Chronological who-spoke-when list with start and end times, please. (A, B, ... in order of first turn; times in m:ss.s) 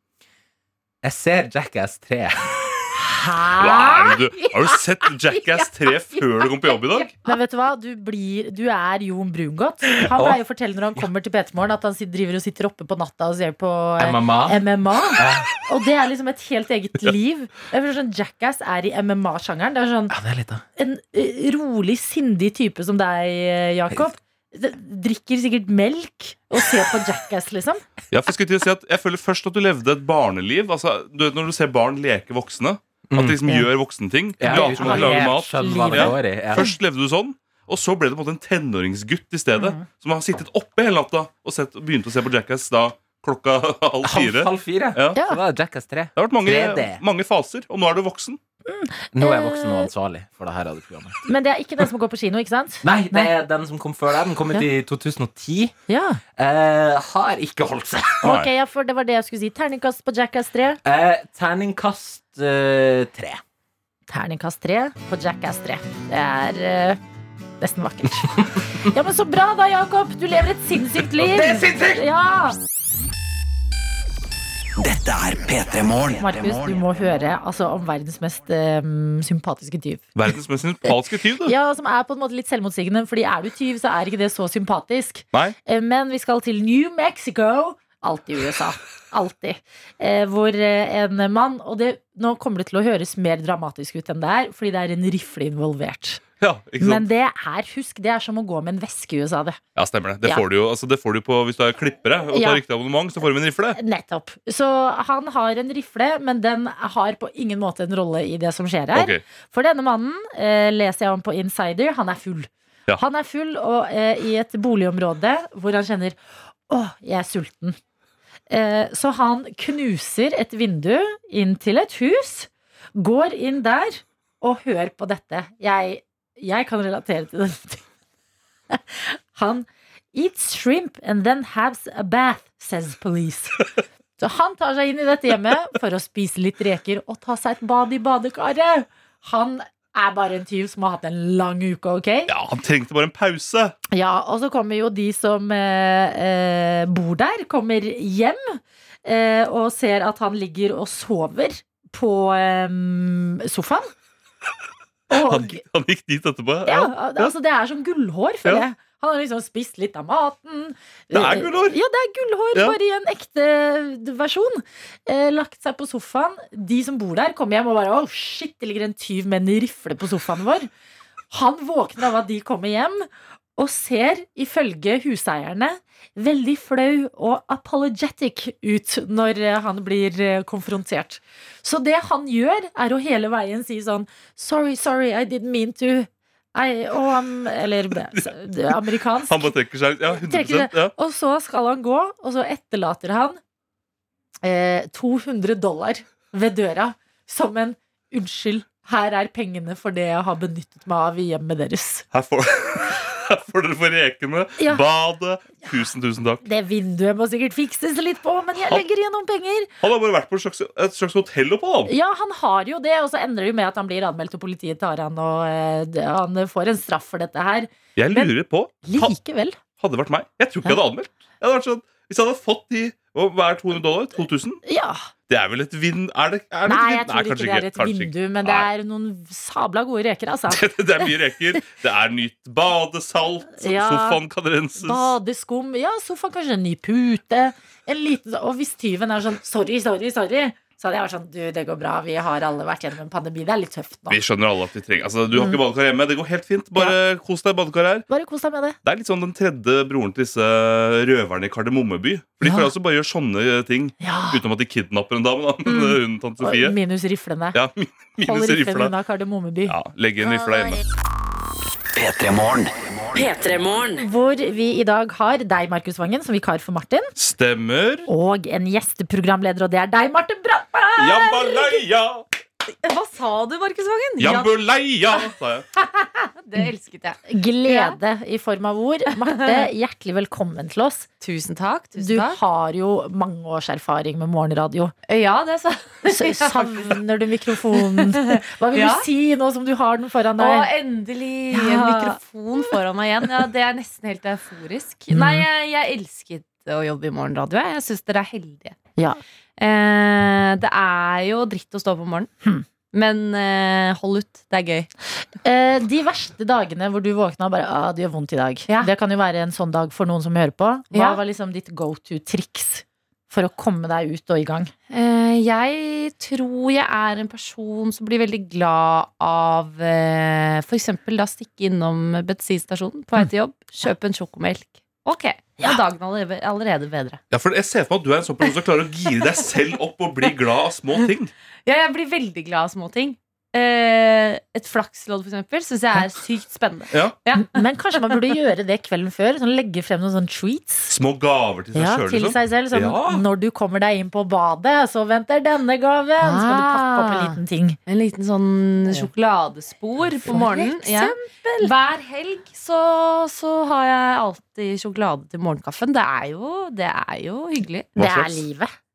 0:01.0-0:02.8 A
0:03.0-0:04.5 B
0:03.6-0:07.1 C
0:06.1-0:20.2 B
0:10.0-0:10.4 A
0:14.0-0:15.5 A
0:20.1-0:20.6 A
0:20.8-0:27.8 B
0:28.1-0:45.2 C
0:33.1-0:33.7 A
0:34.4-0:36.7 A
0:34.4-0:36.7 B
0:39.6-0:39.8 B
0:44.0-0:47.0 A
0:46.2-0:48.4 C
0:48.7-0:49.9 B
0:49.1-0:51.2 A
0:51.2-0:53.3 B
0:52.8-0:55.8 A
0:55.9-0:56.2 B
0:56.4-0:58.4 A
0:58.2-1:00.8 B
1:00.8-1:03.4 A
1:04.1-1:07.0 B
1:07.6-1:12.6 B
1:11.2-1:12.0 A
1:14.8-1:16.8 D
1:16.2-1:20.1 B
1:20.2-1:21.6 C
1:21.4-1:36.2 B
1:36.4-1:37.1 C
1:36.8-1:39.6 B
1:39.8-1:43.8 C
1:42.3-1:42.6 B
1:43.7-1:56.2 B
1:48.9-1:49.2 C
1:56.7-1:57.8 B
1:58.5-2:07.8 B
2:08.7-2:13.6 B
2:14.2-2:22.3 B
2:22.3-2:23.8 C
2:23.9-2:33.9 B
2:35.1-2:35.6 B
2:35.1-2:37.3 C
2:36.6-2:50.7 B
2:41.1-2:41.8 C
2:51.3-3:09.5 B
3:09.3-3:10.9 C
3:10.2-3:13.4 B
3:14.4-3:22.0 B
3:22.1-3:26.4 C
3:24.6-3:24.8 B
3:26.4-3:29.7 B
3:29.8-3:31.9 C
3:31.9-3:38.3 B
3:38.0-3:39.2 C
3:38.8-3:39.6 B
3:39.8-3:44.6 C
3:44.6-3:45.0 B
3:45.3-3:48.7 C
3:46.7-3:50.6 B
3:50.5-3:55.1 C
3:53.6-3:54.2 B
3:54.8-4:04.2 B
4:04.1-4:08.0 C
4:05.3-4:05.6 B
4:08.1-4:08.8 B
4:08.8-4:16.8 C
4:12.4-4:12.7 B
4:14.0-4:14.4 B
4:15.7-4:17.6 B
4:17.5-4:18.9 C
4:18.2-4:19.8 B
4:19.7-4:20.8 C
4:22.0-4:23.9 D
4:23.9-4:27.1 B
4:27.2-4:28.1 C
4:28.1-4:31.8 B
4:31.0-4:32.2 C
4:32.8-4:34.6 E
4:34.2-4:35.7 C
4:36.0-4:38.0 E
4:37.3-4:41.1 B
4:39.2-4:39.7 E
4:41.2-4:42.4 E
4:42.0-4:44.9 B
4:45.1-4:47.0 E
4:46.1-4:50.7 B
4:47.8-4:49.1 E
4:50.4-4:58.8 E
4:51.5-4:52.2 B
4:55.1-4:55.5 B
4:59.6-5:02.3 E
5:02.9-5:04.9 E
5:05.4-5:14.7 B
5:10.9-5:11.2 E
5:14.9-5:27.2 E
5:27.3-5:31.3 C
5:31.7-5:38.2 E
5:37.3-5:41.0 B
5:40.9-5:43.2 C
5:41.8-5:47.8 B
5:46.2-5:58.4 E
5:50.2-5:51.7 B
5:58.0-5:58.7 B